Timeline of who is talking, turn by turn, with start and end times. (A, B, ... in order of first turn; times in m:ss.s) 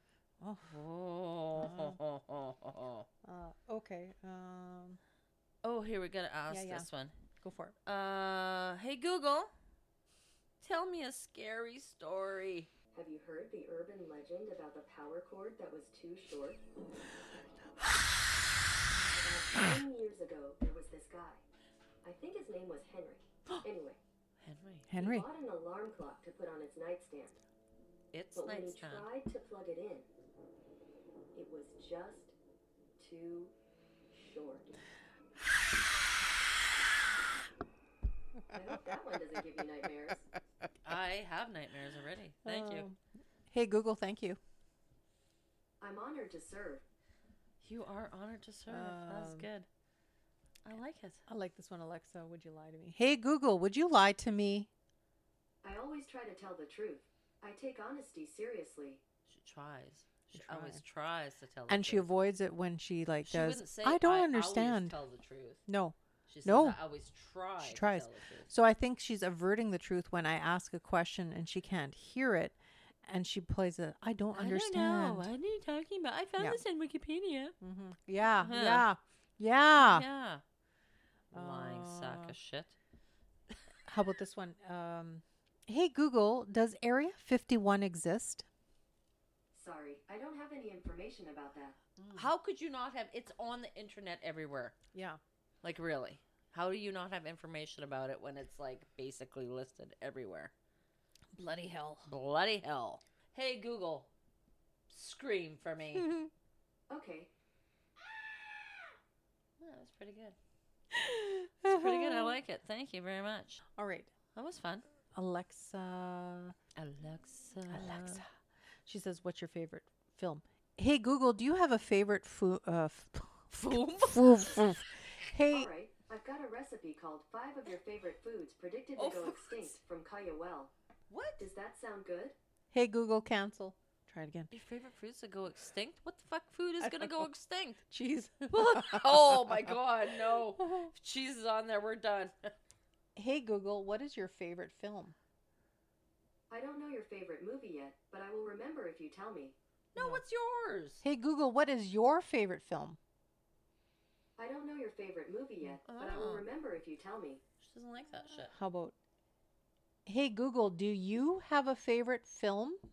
0:00.4-0:00.8 A
0:00.7-0:03.1 B
0:01.6-0:02.0 A
0:03.2-0:05.0 A
0:05.6-0:07.1 B
0:06.5-0:06.9 A
0:07.4-0:07.8 A
0:07.9-0:09.5 B
0:10.6-0:12.7 B
0:12.9-0:16.6 C
0:19.1-0:21.4 C
0:22.0-0:24.0 C
0:24.4-0:24.9 B
0:24.9-0:25.3 A
0:24.9-0:27.4 C
0:28.1-0:29.1 B
0:28.4-0:30.1 C
0:31.3-0:32.3 C
0:33.0-0:33.5 C
0:34.1-0:34.8 C
0:38.5-0:40.2 C
0:40.8-0:42.9 B
0:42.4-0:43.0 A
0:43.5-0:44.4 A
0:45.8-0:46.8 C
0:47.6-0:49.7 B
0:48.7-0:49.5 A
0:50.6-0:51.2 B
0:51.3-0:54.7 A
0:55.6-0:59.0 C
0:59.3-1:02.1 B
1:00.3-1:00.8 A
1:01.7-1:05.0 A
1:03.2-1:05.6 B
1:05.7-1:06.8 A
1:06.3-1:08.5 B
1:07.6-1:15.3 A
1:14.3-1:17.6 B
1:17.6-1:20.1 A
1:18.4-1:18.9 B
1:19.8-1:20.4 B
1:21.3-1:22.4 A
1:21.3-1:22.8 B
1:23.9-1:28.4 A
1:29.5-1:31.8 C
1:32.0-1:32.3 A
1:32.1-1:34.8 B
1:34.9-1:35.2 A
1:35.6-1:40.5 B
1:41.4-1:42.1 A
1:42.1-1:44.1 B
1:44.9-1:46.1 B
1:45.9-1:46.3 A
1:46.9-1:47.3 C
1:49.6-1:50.4 B
1:50.9-1:52.4 A
1:51.6-1:53.6 B
1:53.8-1:54.1 A
1:54.3-1:54.9 B
1:55.1-1:56.6 A
1:56.8-1:58.2 B
1:57.7-1:58.3 A
1:58.9-2:05.7 A
2:03.5-2:04.5 B
2:05.5-2:10.7 C
2:08.9-2:09.8 B
2:11.1-2:11.4 B
2:11.4-2:12.4 C
2:12.7-2:14.5 A
2:14.5-2:17.8 B
2:16.8-2:17.3 A
2:17.9-2:19.8 A
2:18.5-2:22.5 B
2:20.6-2:20.9 A
2:23.2-2:25.1 A
2:26.5-2:29.6 C
2:29.9-2:31.0 B
2:30.0-2:30.2 A
2:31.0-2:33.0 A
2:34.4-2:37.4 C
2:35.9-2:36.4 B
2:37.6-2:38.5 B
2:38.4-2:38.9 A
2:40.1-2:42.8 A